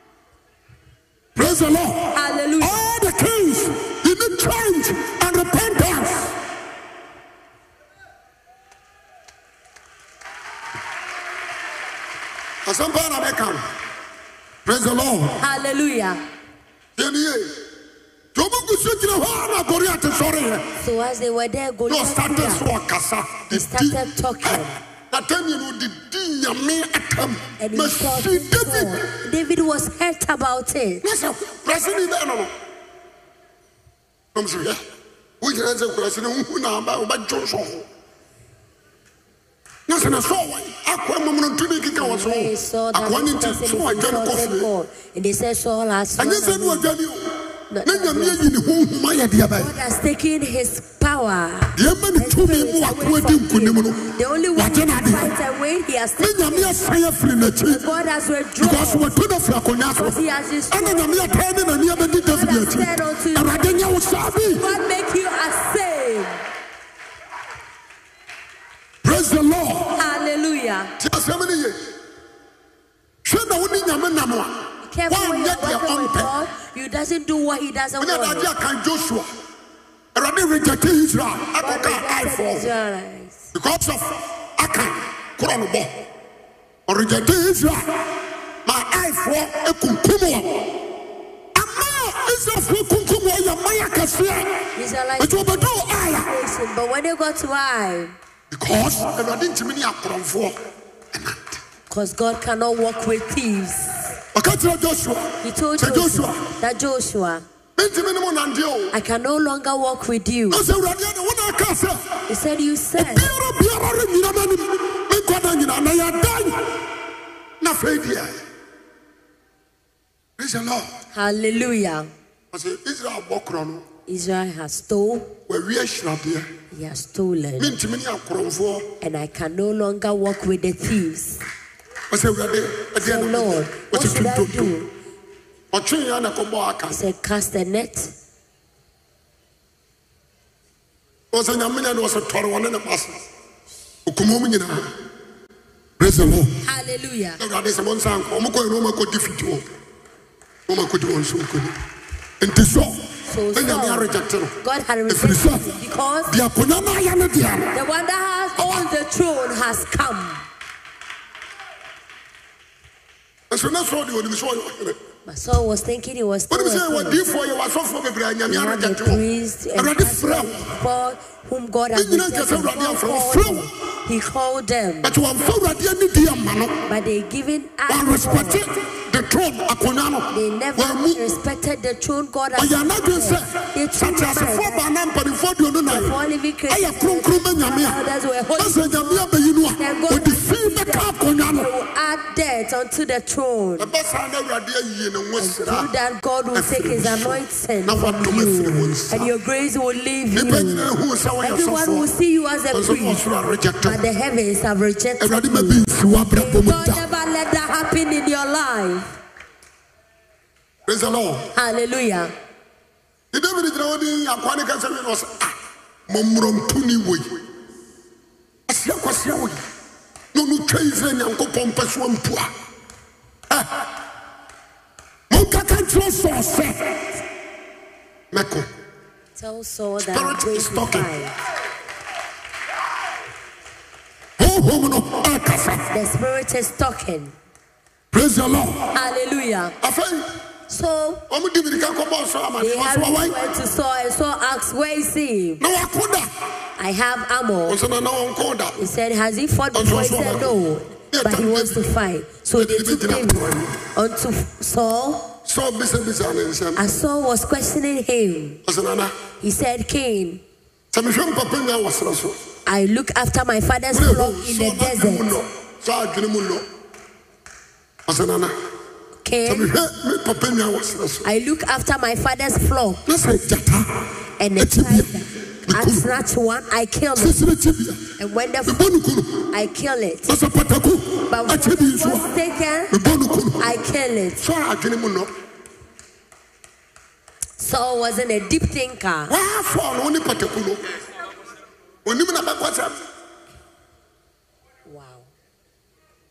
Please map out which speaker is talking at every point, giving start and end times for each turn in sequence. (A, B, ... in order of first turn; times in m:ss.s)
0:01.4-0:06.4 A
0:02.1-0:02.8 B
0:12.7-0:13.6 A
0:14.6-0:15.4 A
0:15.4-0:16.2 B
0:17.0-0:17.5 A
0:18.4-0:20.7 A
0:20.8-0:22.6 B
0:21.9-0:29.0 A
0:23.5-0:24.8 B
0:27.6-0:31.0 B
0:31.0-0:32.5 A
0:34.4-0:34.8 A
0:35.4-0:37.9 A
0:39.9-0:44.7 A
0:42.0-0:46.9 B
0:46.2-0:47.3 A
0:47.7-0:48.5 B
0:47.8-0:49.7 A
0:49.6-0:56.8 B
0:51.8-0:55.3 A
0:56.2-0:57.8 A
0:57.6-0:59.1 B
0:58.6-1:00.2 A
1:00.0-1:01.4 B
1:00.7-1:04.7 A
1:02.0-1:06.4 B
1:09.0-1:10.0 A
1:10.0-1:10.9 B
1:11.0-1:11.8 A
1:13.2-1:16.3 A
1:14.8-1:18.5 B
1:18.0-1:19.3 A
1:20.2-1:22.7 A
1:21.6-1:23.5 B
1:23.5-1:26.0 A
1:26.9-1:27.9 A
1:28.6-1:30.7 A
1:31.6-1:34.7 A
1:34.8-1:38.2 B
1:35.2-1:36.3 A
1:38.5-1:40.6 A
1:41.1-1:41.6 A
1:41.9-1:44.2 B
1:44.3-1:46.4 A
1:45.4-1:47.5 B
1:47.8-1:48.9 A
1:48.9-1:50.6 B
1:50.5-1:52.1 A
1:52.3-1:53.3 B
1:53.0-1:56.7 A
1:57.6-1:58.4 A
2:00.4-2:00.9 A
2:01.1-2:02.1 B
2:02.5-2:03.8 A
2:04.1-2:05.3 B
2:05.5-2:06.5 A
2:06.7-2:07.7 B
2:07.6-2:08.9 A
2:09.0-2:11.4 B
2:12.1-2:14.7 A
2:13.0-2:14.9 B
2:15.7-2:17.0 A
2:16.9-2:18.1 B
2:21.3-2:23.2 A
2:24.1-2:24.9 A
2:26.0-2:26.6 A
2:26.6-2:27.4 B
2:27.4-2:29.7 A
2:30.7-2:31.8 A
2:32.4-2:34.6 A
2:33.3-2:34.1 B
2:34.6-2:36.3 B
2:35.1-2:35.7 A
2:36.3-2:37.7 A
2:37.7-2:40.4 B
2:38.6-2:38.9 A
2:43.5-2:45.0 A
2:45.3-2:47.2 B
2:46.5-2:49.2 A
2:48.5-2:55.1 B
2:49.8-2:50.6 A
2:51.9-2:53.7 A
2:55.0-2:56.8 A
2:56.9-2:58.7 B
2:57.9-3:01.3 A
3:00.3-3:04.8 B
3:02.6-3:06.2 A
3:05.9-3:09.3 B
3:06.7-3:08.0 A
3:08.6-3:11.7 A
3:09.8-3:13.9 B
3:13.8-3:15.9 A
3:15.4-3:20.9 B
3:16.5-3:19.3 A
3:20.3-3:22.1 A
3:21.4-3:23.2 B
3:22.7-3:24.0 A
3:23.8-3:25.8 B
3:25.2-3:27.0 A
3:26.3-3:29.2 B
3:30.9-3:31.5 A
3:31.6-3:32.3 B
3:33.3-3:35.6 A
3:36.1-3:37.4 A
3:38.7-3:39.6 A
3:40.3-3:42.5 A
3:45.3-3:47.2 A
3:48.3-3:48.7 A
3:49.4-3:51.3 B
3:50.1-3:51.1 A
3:54.4-3:55.8 A
3:55.9-3:57.4 B
3:58.1-3:58.9 A
3:58.9-3:59.8 B
3:59.8-4:00.3 A
4:00.7-4:01.2 B
4:01.3-4:03.4 A
4:02.6-4:05.6 B
4:05.6-4:06.3 A
4:06.8-4:07.8 B
4:07.7-4:08.8 A
4:08.8-4:15.3 B
4:09.7-4:10.5 A
4:11.1-4:11.8 A
4:12.6-4:13.8 A
4:15.4-4:16.8 A
4:16.8-4:18.6 B
4:18.7-4:19.1 A
4:19.4-4:20.4 B
4:20.9-4:22.4 A
4:22.7-4:25.3 B
4:23.9-4:26.6 A
4:28.1-4:28.6 A
4:29.2-4:29.7 B
4:29.5-4:31.3 A
4:31.2-4:33.0 B
4:33.1-4:33.9 A
4:34.4-4:37.4 B
4:34.6-4:35.1 A
4:35.7-4:36.1 A
4:37.2-4:38.0 A
4:38.2-4:38.9 B
4:38.7-4:39.5 A
4:39.5-4:40.4 B
4:40.3-4:42.3 A
4:41.3-4:42.9 B
4:42.9-4:43.7 A
4:43.6-4:44.4 B
4:44.4-4:45.3 A
4:47.6-4:49.3 B
4:49.3-4:50.8 A
4:52.0-4:53.0 A
4:54.9-4:55.3 B